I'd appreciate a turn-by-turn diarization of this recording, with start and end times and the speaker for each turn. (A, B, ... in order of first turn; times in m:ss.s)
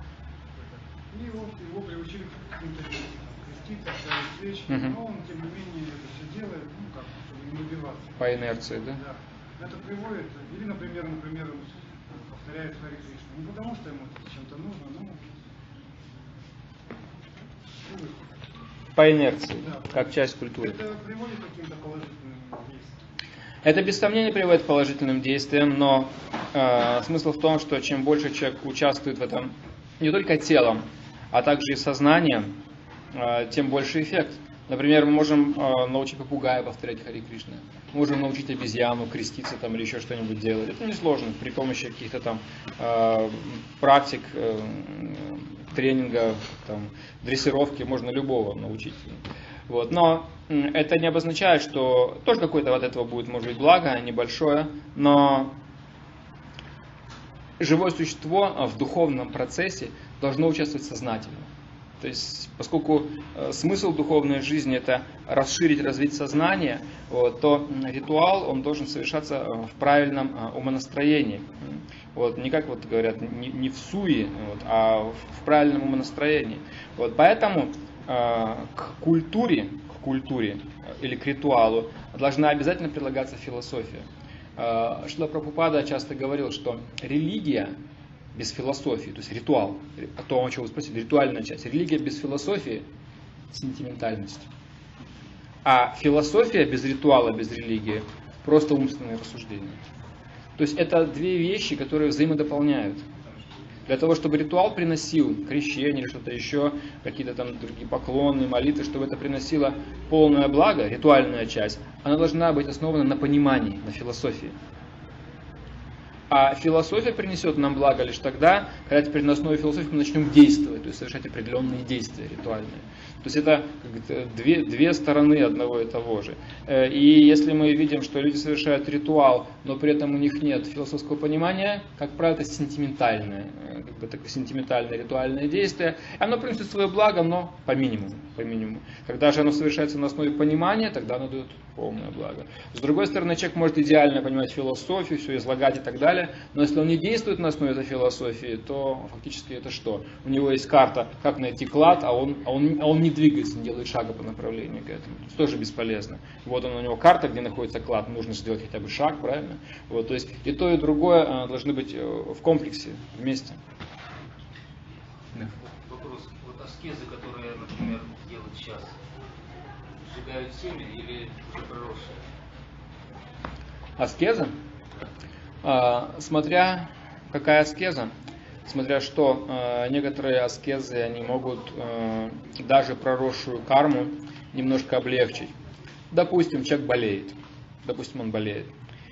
0:00.6-0:08.2 A
0:08.2-0:09.0 B
0:09.0-0:15.3 A
0:17.8-0:18.4 A
0:19.0-0:20.8 B
0:19.7-0:20.0 A
0:20.6-0:23.0 A
0:23.6-0:32.5 B
0:33.1-0:55.6 B
0:57.6-1:01.5 B
1:02.0-1:27.8 B
1:28.3-1:32.8 B
1:33.5-1:34.5 B
1:35.6-1:39.8 B
1:40.6-1:43.0 B
1:43.9-1:54.6 B
1:56.3-2:43.6 B
2:45.6-2:49.0 C
2:50.0-2:52.2 C
2:54.0-2:54.5 B
2:55.6-2:58.1 B
2:58.7-3:05.5 B
3:06.1-3:08.7 B